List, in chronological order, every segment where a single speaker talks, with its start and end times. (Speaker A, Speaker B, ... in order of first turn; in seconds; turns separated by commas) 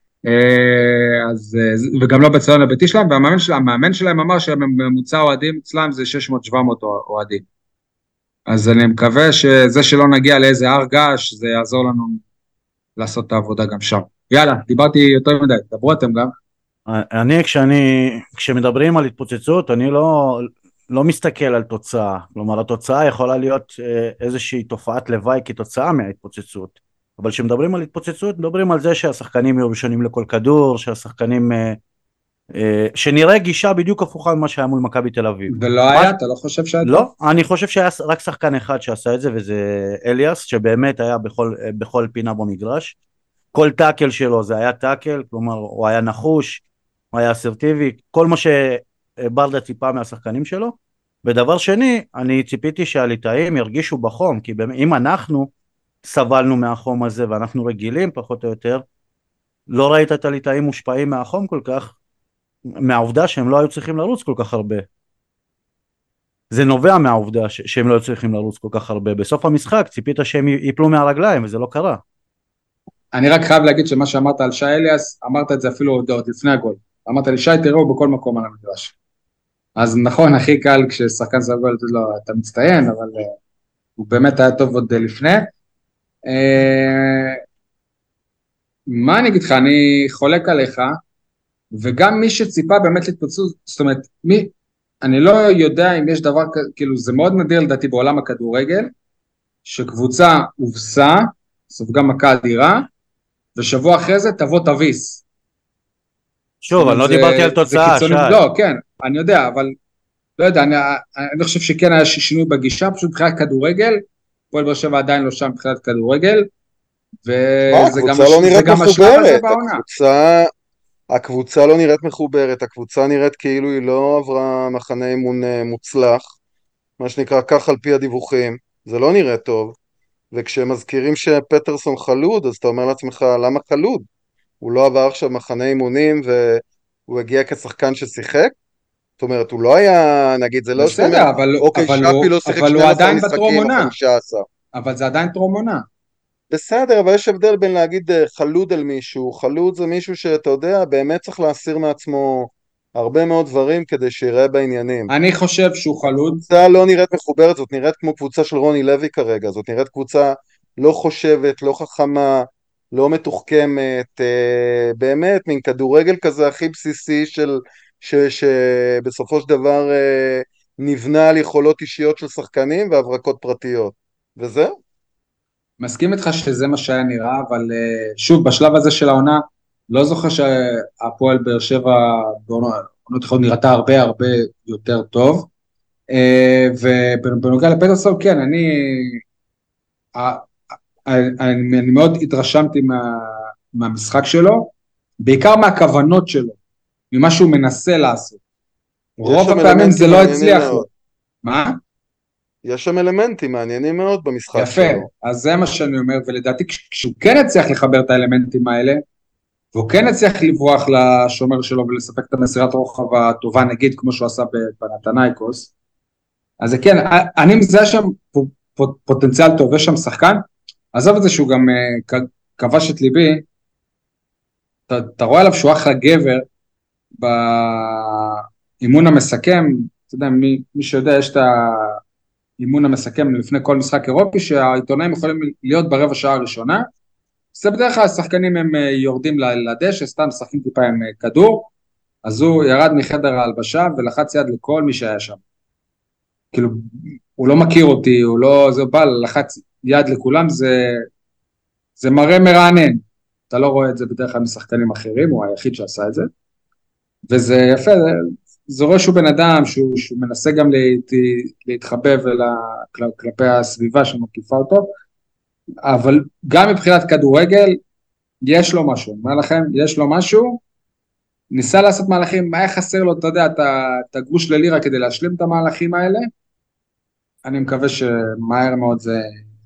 Speaker A: 0.3-7.5, Speaker A: 8.5-12.2, Speaker A: 13.0-16.3, Speaker B: 16.9-31.8, Speaker B: 32.5-36.1, Speaker A: 35.5-37.1, Speaker B: 36.8-43.0, Speaker B: 43.5-55.5, Speaker B: 56.0-58.8, Speaker B: 59.7-62.0, Speaker B: 62.7-64.8, Speaker B: 66.5-72.0, Speaker A: 73.1-78.9, Speaker A: 79.8-83.3, Speaker A: 84.0-85.5, Speaker A: 86.3-87.4, Speaker A: 88.9-91.0, Speaker A: 91.7-98.9, Speaker A: 99.7-102.9, Speaker A: 103.6-105.2, Speaker B: 106.6-108.4, Speaker A: 106.8-109.8, Speaker A: 110.4-116.5, Speaker A: 117.2-119.8, Speaker C: 117.7-120.5, Speaker C: 121.1-126.3, Speaker C: 127.0-129.8, Speaker C: 130.3-134.1, Speaker C: 134.6-138.6, Speaker C: 139.2-144.5, Speaker A: 140.8-143.9, Speaker A: 144.8-145.8, Speaker C: 146.5-155.1, Speaker A: 155.1-156.4, Speaker C: 156.5-174.8, Speaker A: 175.8-185.5, Speaker A: 186.1-189.2, Speaker A: 190.2-190.5, Speaker A: 191.1-196.6, Speaker A: 197.1-198.4, Speaker A: 199.2-200.9, Speaker C: 199.2-200.9, Speaker A: 201.4-201.8, Speaker C: 202.6-205.1, Speaker A: 204.6-209.0, Speaker A: 209.7-215.7, Speaker A: 216.6-220.4, Speaker A: 220.9-223.4, Speaker A: 224.9-226.5, Speaker A: 227.2-232.0, Speaker A: 232.6-236.9, Speaker A: 237.5-241.7, Speaker A: 242.2-245.4, Speaker A: 246.5-251.0, Speaker A: 252.0-256.3, Speaker A: 257.3-264.9, Speaker A: 265.9-267.8, Speaker A: 268.4-270.6, Speaker A: 271.5-276.3, Speaker A: 277.4-279.4